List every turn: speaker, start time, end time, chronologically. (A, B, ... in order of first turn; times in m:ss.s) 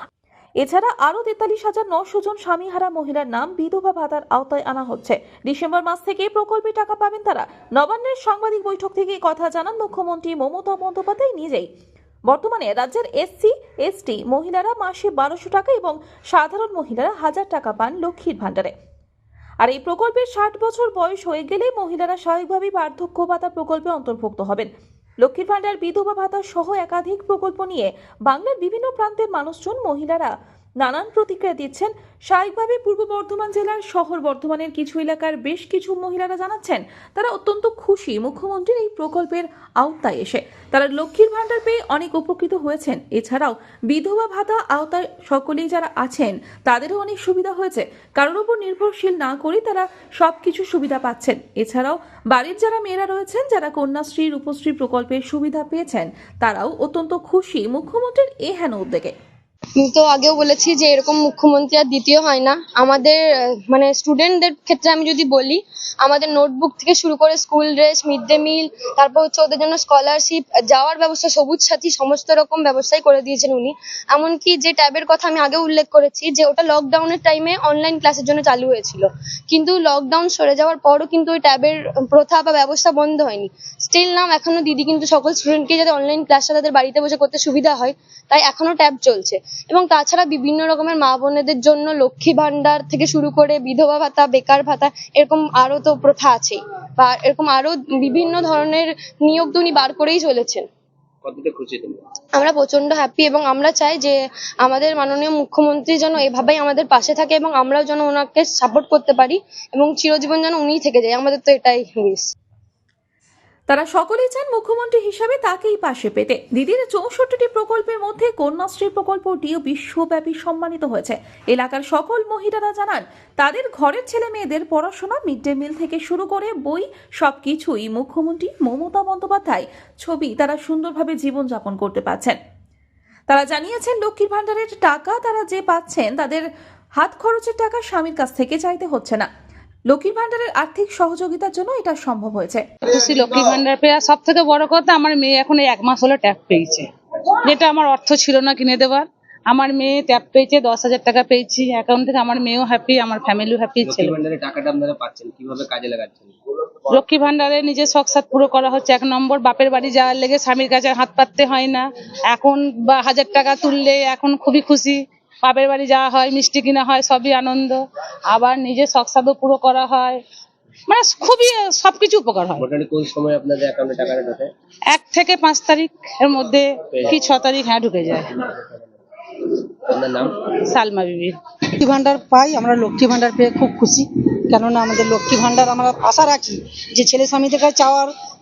0:00.6-0:11.7 A
0:12.3-0:18.7 A
0:19.6-0:24.7 A
0:25.2-0:59.1 A
0:59.8-1:40.7 B
1:41.2-1:42.0 C
1:42.4-1:52.3 B
1:53.7-2:12.4 A
2:13.3-2:16.4 A
2:17.0-2:19.3 A
2:19.9-2:22.6 A
2:22.9-2:26.9 D
2:27.4-2:34.2 D
2:33.8-2:36.4 C
2:36.9-2:50.2 D
2:50.9-2:52.6 D
2:52.6-2:54.5 C
2:54.9-2:58.3 D
2:56.9-2:57.3 C
2:58.4-2:58.8 C
2:59.9-3:00.4 C
3:00.5-3:01.4 D
3:01.8-3:08.1 E